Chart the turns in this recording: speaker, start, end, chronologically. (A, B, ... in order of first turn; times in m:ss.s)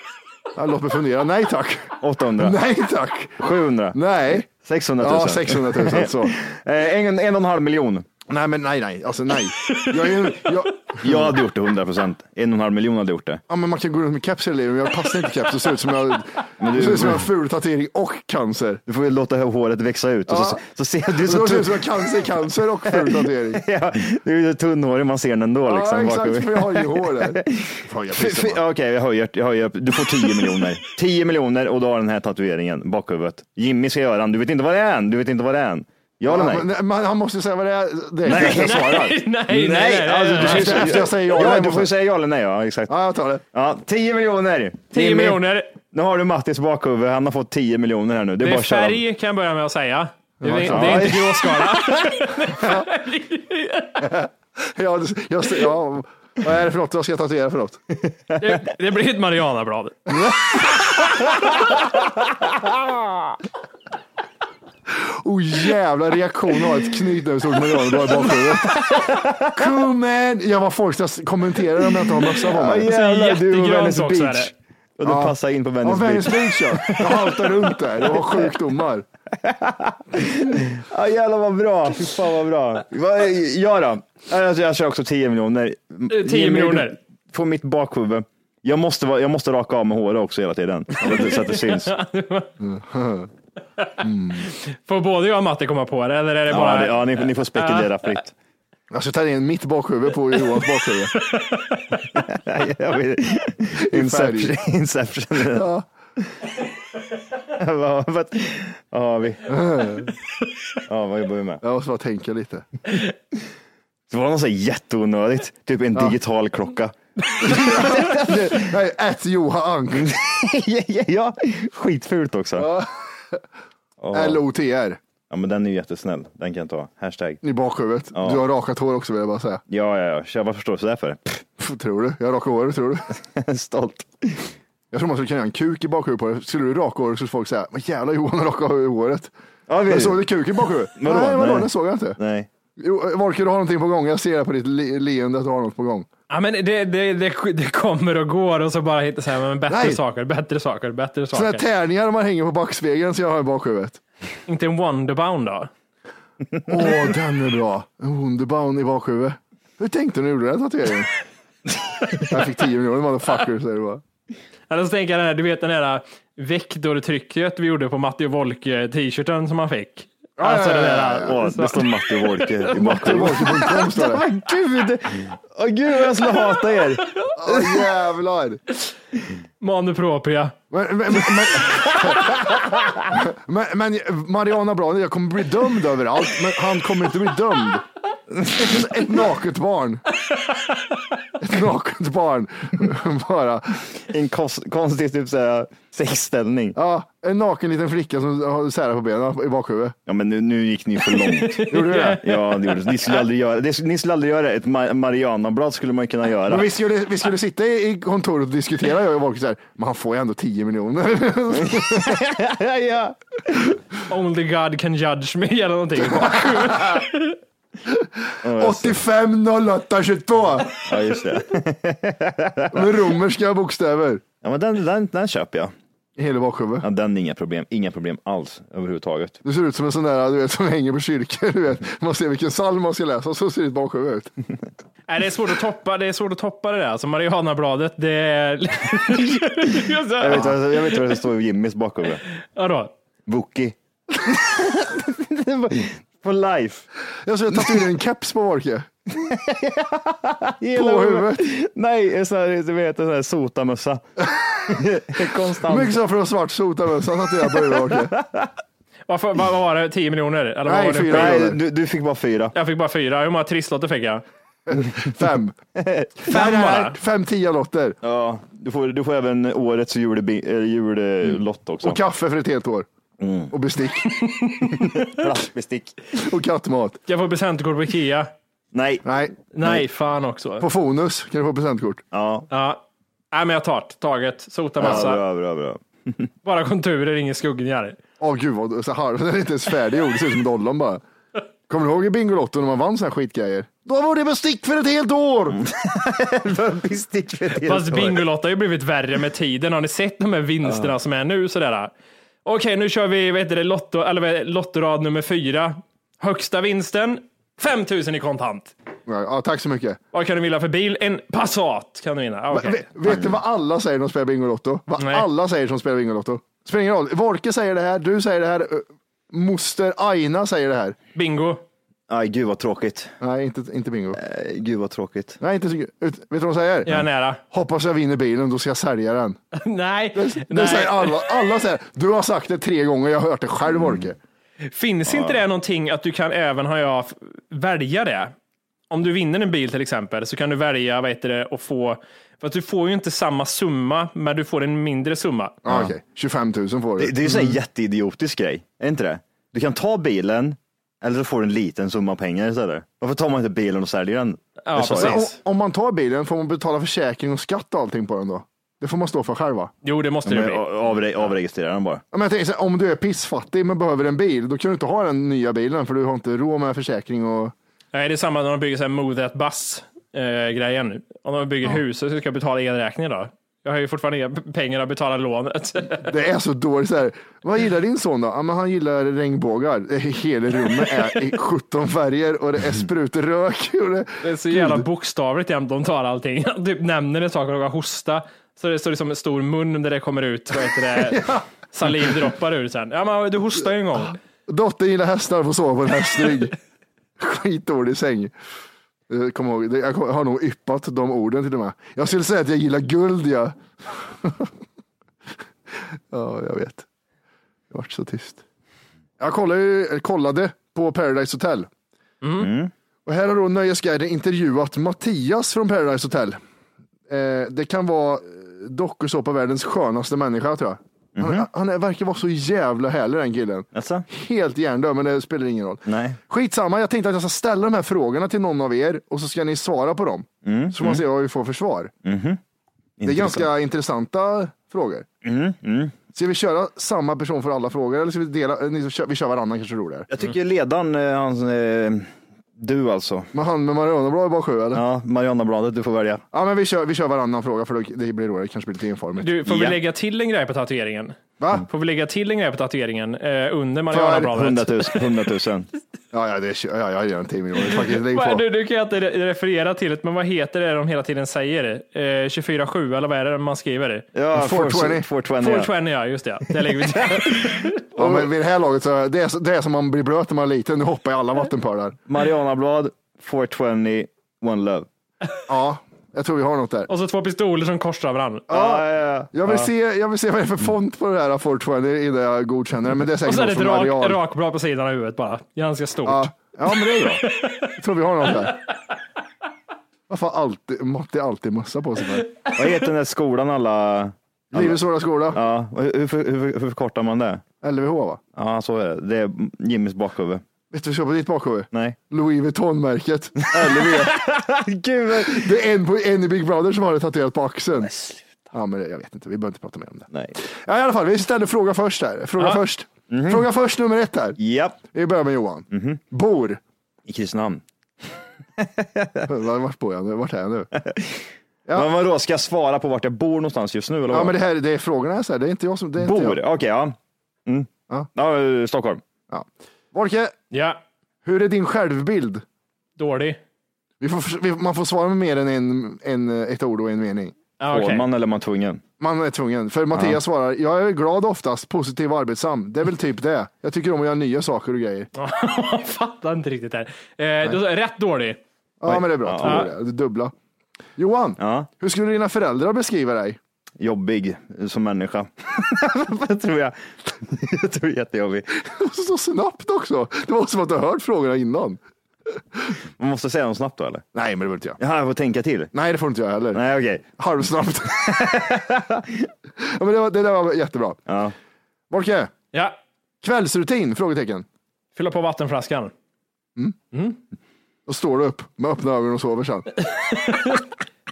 0:00.5-0:06.3 A
0:02.0-0:02.6 B
0:03.4-0:08.0 B
0:08.3-0:11.4 A
0:11.0-0:13.4 B
0:13.5-0:18.8 A
0:16.6-0:17.3 B
0:18.9-0:22.3 B
0:20.3-0:20.6 A
0:21.2-0:23.6 A
0:22.8-0:36.7 B
0:25.6-0:28.6 A
0:36.2-0:39.2 A
0:38.2-0:42.9 B
0:38.3-0:41.0 C
0:40.4-0:41.9 A
0:42.9-0:43.4 A
0:43.5-0:49.0 B
0:44.9-0:45.7 C
0:48.4-0:54.0 C
0:50.4-0:51.2 A
0:50.7-0:51.6 B
0:52.6-0:52.8 A
0:54.0-0:57.8 A
0:58.4-1:00.1 C
1:00.1-1:01.0 A
1:01.2-1:03.4 B
1:04.9-1:08.9 A
1:08.5-1:09.7 B
1:09.5-1:12.9 A
1:12.3-1:18.5 B
1:12.8-1:14.5 C
1:15.0-1:19.0 A
1:19.4-1:31.9 B
1:26.1-1:27.0 C
1:31.0-1:32.5 C
1:32.6-1:33.3 A
1:34.0-1:34.5 A
1:34.5-1:38.2 C
1:36.5-1:38.3 B
1:38.9-1:41.2 A
1:41.3-1:41.8 C
1:42.1-1:45.7 B
1:43.8-1:44.6 A
1:45.5-1:45.8 A
1:47.5-1:49.6 B
1:49.5-1:50.1 A
1:50.9-1:51.6 B
1:51.6-1:52.6 A
1:54.1-1:58.7 B
1:57.5-2:00.1 A
1:59.9-2:02.7 B
2:02.6-2:03.4 A
2:04.0-2:04.4 B
2:04.1-2:05.0 A
2:05.3-2:07.4 B
2:07.4-2:09.6 A
2:08.1-2:08.4 B
2:09.7-2:11.4 B
2:11.6-2:13.1 A
2:13.1-2:14.5 B
2:14.9-2:19.3 A
2:19.7-2:20.3 B
2:19.8-2:22.2 A
2:20.9-2:22.5 B
2:22.8-2:26.1 A
2:26.3-2:31.6 C
2:29.7-2:30.0 A
2:31.3-2:34.0 A
2:34.5-2:35.7 C
2:36.7-2:41.1 A
2:42.2-2:44.0 A
2:44.7-2:53.2 C
2:50.4-2:51.6 A
2:51.0-2:57.9 B
2:52.7-2:54.2 A
2:57.4-2:58.6 A
2:59.6-3:00.5 C
3:00.7-3:07.8 A
3:08.5-3:10.0 A
3:11.4-3:13.8 A
3:14.0-3:16.8 B
3:16.7-3:20.0 A
3:20.0-3:26.7 B
3:21.1-3:22.9 C
3:21.7-3:22.3 A
3:26.5-3:32.2 A
3:31.5-3:33.6 B
3:34.1-3:37.4 C
3:36.0-3:36.9 A
3:37.9-3:40.8 A
3:38.4-3:39.0 B
3:40.8-3:43.1 B
3:42.7-3:44.2 A
3:44.4-3:45.7 B
3:46.2-3:46.8 A
3:46.8-3:49.4 B
3:49.4-3:54.3 A
3:55.1-4:01.2 C
4:00.2-4:02.2 B
4:02.5-4:02.9 C
4:03.2-4:06.8 B
4:07.2-4:08.9 A
4:07.5-4:07.8 B
4:09.1-4:14.0 B
4:10.7-4:11.5 A
4:14.7-4:16.0 B
4:14.7-4:15.1 A
4:15.2-4:15.6 C
4:15.6-4:18.1 A
4:17.5-4:18.5 B
4:19.1-4:21.4 C
4:20.6-4:21.6 A
4:21.1-4:22.5 B
4:22.5-4:24.2 C
4:24.7-4:25.6 A
4:25.8-4:26.3 B
4:26.2-4:28.0 A
4:26.3-4:27.0 C
4:28.0-4:32.0 B
4:31.8-4:32.9 A
4:33.2-4:33.6 B
4:33.5-4:34.2 A
4:34.3-4:35.2 C
4:34.7-4:36.0 B
4:36.2-4:37.0 A
4:37.1-4:38.3 C
4:38.7-4:39.0 B
4:39.0-4:39.3 A
4:39.5-4:40.6 C
4:40.6-4:42.0 A
4:42.1-4:42.5 B
4:42.5-4:42.8 C
4:43.3-4:45.2 C
4:44.8-4:46.3 B
4:46.4-4:48.0 C
4:48.2-4:51.0 A
4:51.7-4:55.6 A
4:55.6-4:58.2 B
4:57.6-5:01.9 C
5:00.6-5:00.9 B
5:02.4-5:08.7 C
5:09.1-5:10.0 A
5:10.1-5:12.8 C
5:12.5-5:21.0 A
5:13.1-5:13.4 B
5:15.0-5:15.2 C
5:21.1-5:21.6 C
5:22.1-5:23.2 B
5:23.2-5:24.2 A
5:24.1-5:25.4 B
5:25.4-5:27.0 A
5:26.8-5:27.4 C
5:27.5-5:29.4 A
5:29.5-5:31.3 C
5:30.1-5:34.2 A
5:33.7-5:34.1 B
5:34.6-5:38.3 C
5:35.0-5:35.4 B
5:38.9-5:45.6 C
5:45.6-5:47.4 A
5:45.6-5:45.9 B
5:47.0-5:55.2 B
5:54.6-5:55.4 C
5:54.9-5:59.7 A
5:59.8-6:00.6 C
6:00.2-6:02.0 B
6:02.1-6:07.5 A
6:07.9-6:16.1 C
6:16.0-6:24.8 A
6:24.2-6:34.2 C
6:31.0-6:31.4 A
6:34.5-6:36.5 A
6:37.2-6:38.3 A
6:39.1-6:44.5 A
6:46.1-6:46.8 A
6:47.7-6:48.4 A
6:49.2-6:51.7 A
6:52.2-6:52.5 C
6:52.4-6:52.7 B
6:53.0-6:56.4 A
6:57.1-7:11.9 A
7:01.2-7:01.5 B
7:03.7-7:04.0 B
7:05.8-7:06.2 B
7:10.4-7:11.0 B
7:12.0-7:12.4 B
7:13.0-7:13.5 B
7:13.0-7:15.0 A
7:15.2-7:16.0 B
7:16.1-7:20.1 A
7:20.1-7:23.3 B
7:23.3-7:24.8 A
7:24.7-7:26.2 B
7:26.3-7:29.4 A
7:29.2-7:35.0 C
7:29.4-7:29.8 B
7:31.4-7:31.6 A
7:33.9-7:34.3 A
7:34.1-7:35.7 B
7:36.1-7:38.4 A
7:37.7-7:44.0 C
7:44.1-7:45.7 B
7:44.3-7:45.1 A
7:45.4-7:47.8 C
7:46.5-7:48.3 B
7:48.0-7:52.0 A
7:52.1-7:54.9 B
7:55.5-7:56.9 A
7:56.9-7:58.5 C
7:58.5-7:59.7 B
7:58.5-8:04.2 A
8:03.2-8:07.6 C
8:06.0-8:08.6 A
8:10.1-8:12.3 A
8:12.6-8:17.4 B
8:14.5-8:15.4 A
8:17.6-8:18.2 A
8:18.4-8:20.4 B
8:20.7-8:24.2 A
8:21.7-8:22.0 B
8:23.5-8:25.6 B
8:25.2-8:27.9 A
8:27.8-8:28.2 B
8:28.5-8:34.4 A
8:33.1-8:33.5 B
8:34.4-8:34.8 B
8:34.9-8:36.6 A
8:35.7-8:36.0 B
8:37.0-8:39.3 B
8:39.3-8:40.7 A
8:40.8-8:44.4 B
8:44.1-8:46.4 A
8:46.0-8:49.0 B
8:49.3-8:50.3 A
8:50.5-8:50.8 C
8:51.2-8:52.4 A
8:53.0-8:53.4 C
8:54.0-8:57.3 A
8:57.6-8:58.0 C
8:57.7-8:58.8 B
8:59.0-9:05.1 A
8:59.9-9:00.2 B
9:05.2-9:08.4 C
9:08.8-9:10.3 A
9:08.8-9:09.7 B
9:09.4-9:09.7 C
9:11.0-9:13.4 A
9:11.4-9:11.7 B
9:13.8-9:18.5 B
9:18.7-9:21.8 A
9:23.0-9:24.0 B
9:24.1-9:24.8 A
9:24.8-9:25.7 B
9:25.7-9:26.6 A
9:26.5-9:27.1 B
9:27.2-9:28.6 A
9:28.0-9:29.0 B
9:29.6-9:31.0 A
9:31.1-9:31.3 B
9:31.9-9:32.3 A
9:33.2-9:34.4 A
9:35.0-9:35.9 C
9:36.9-9:37.2 C
9:37.8-9:39.7 A
9:39.9-9:40.6 C